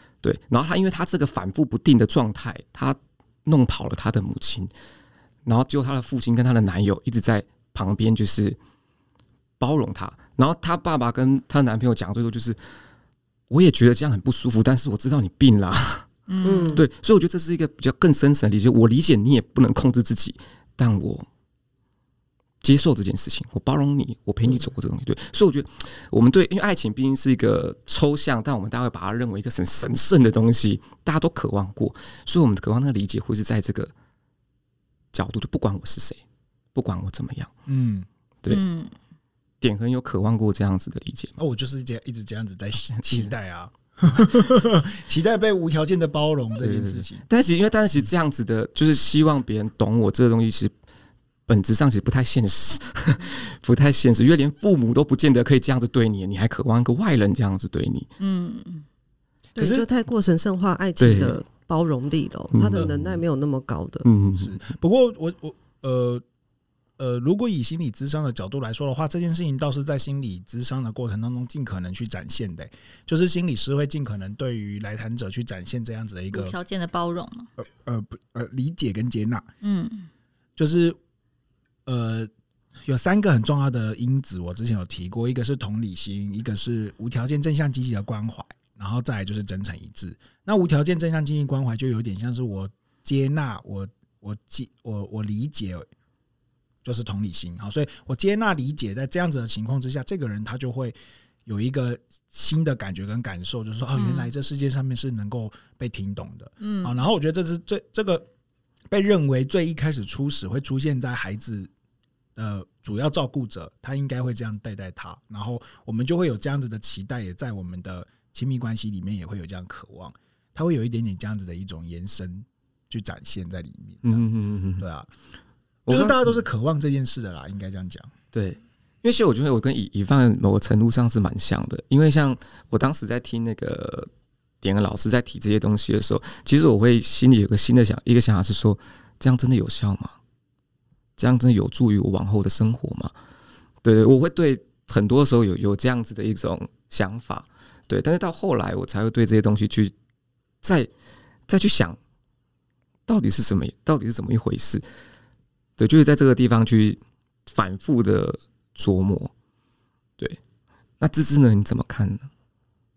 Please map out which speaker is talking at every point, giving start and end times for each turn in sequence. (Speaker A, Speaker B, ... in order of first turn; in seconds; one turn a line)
Speaker A: 0.2-4.7
Speaker A: 5.4-8.6
Speaker A: 9.6-12.6
Speaker A: 13.5-16.1
Speaker B: 16.3-16.8
Speaker C: 16.4-16.8
Speaker A: 16.7-21.3
Speaker A: 22.6-33.9
Speaker A: 35.1-36.2
Speaker A: 36.7-37.5
Speaker D: 37.7-38.1
Speaker B: 38.5-38.9
Speaker A: 39.6-41.4
Speaker D: 41.4-47.2
Speaker A: 42.9-43.3
Speaker A: 46.6-50.7
Speaker A: 51.5-58.1
Speaker B: 58.2-58.8
Speaker C: 59.6-64.1
Speaker A: 61.0-61.4
Speaker A: 62.5-63.2
Speaker A: 64.0-64.6
Speaker D: 64.4-66.2
Speaker D: 67.0-76.5
Speaker B: 76.3-77.5
Speaker D: 77.6-79.5
Speaker B: 79.6-80.1
Speaker D: 80.6-81.0
Speaker D: 81.8-82.3
Speaker D: 82.8-95.9
Speaker D: 96.8-108.3
Speaker B: 103.9-104.3
Speaker B: 106.6-107.0
Speaker D: 108.9-111.7
Speaker D: 112.4-125.1
Speaker A: 124.0-124.8
Speaker A: 125.9-126.3
Speaker D: 125.9-128.1
Speaker A: 128.3-134.1
Speaker A: 134.6-140.1
Speaker A: 141.2-143.1
Speaker A: 143.8-149.9
Speaker A: 150.6-150.9
Speaker A: 151.5-152.0
Speaker A: 153.1-154.8
Speaker A: 155.8-159.3
Speaker A: 161.0-162.3